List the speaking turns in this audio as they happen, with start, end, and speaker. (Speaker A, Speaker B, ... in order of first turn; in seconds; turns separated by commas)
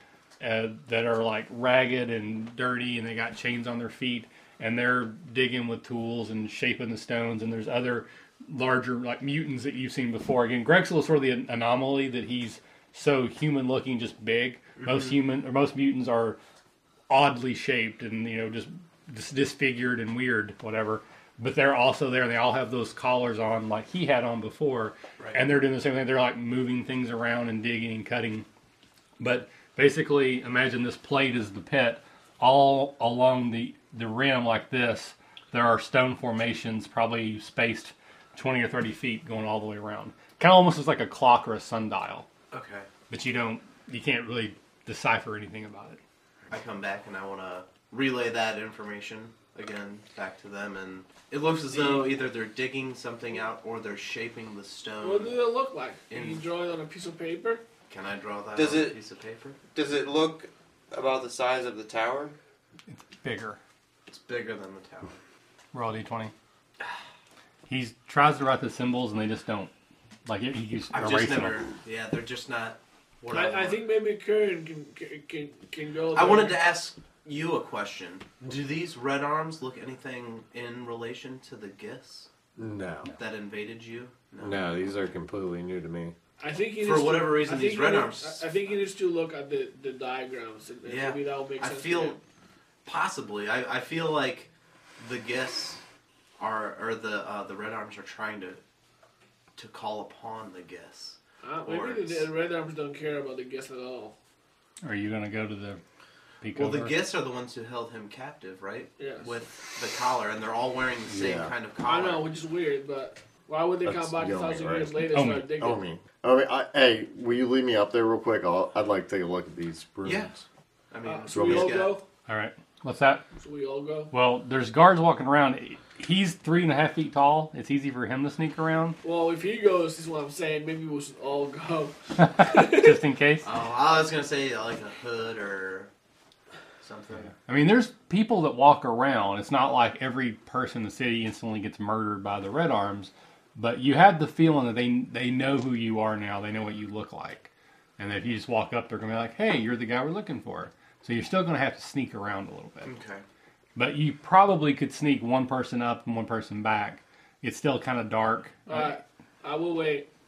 Speaker A: 0.4-16.4, Speaker A: 17.1-28.4, Speaker A: 29.2-42.3, Speaker B: 42.5-42.9, Speaker A: 43.1-46.0, Speaker B: 46.5-55.4, Speaker C: 55.0-57.6, Speaker B: 56.1-56.4, Speaker B: 57.9-59.6, Speaker D: 58.5-59.0, Speaker D: 59.7-62.3, Speaker A: 62.9-63.6, Speaker B: 64.1-65.2, Speaker A: 65.7-66.3, Speaker A: 67.7-69.7, Speaker A: 70.2-71.6, Speaker B: 70.9-73.8, Speaker C: 73.3-76.6, Speaker B: 76.1-82.3, Speaker E: 82.6-83.1, Speaker B: 83.1-84.6, Speaker E: 84.4-86.1, Speaker C: 86.4-92.2, Speaker B: 86.8-88.4, Speaker B: 90.8-92.2, Speaker B: 92.8-95.8, Speaker B: 96.4-98.6, Speaker B: 99.5-102.3, Speaker C: 101.4-104.1, Speaker A: 104.8-105.8, Speaker A: 106.4-106.9, Speaker B: 106.5-112.2, Speaker C: 109.0-109.3, Speaker E: 111.1-111.5, Speaker C: 111.8-115.8, Speaker E: 113.8-114.9, Speaker A: 115.1-115.5, Speaker E: 115.6-120.4, Speaker B: 120.0-120.3, Speaker B: 120.9-122.0, Speaker C: 121.0-122.0, Speaker E: 121.3-121.8, Speaker A: 122.3-123.2, Speaker C: 123.3-124.1, Speaker A: 124.1-129.0, Speaker C: 129.0-133.0, Speaker A: 132.2-133.4, Speaker B: 133.4-135.9, Speaker B: 136.8-137.3, Speaker A: 137.5-152.9, Speaker B: 152.8-153.2, Speaker A: 153.8-159.0, Speaker C: 158.7-160.1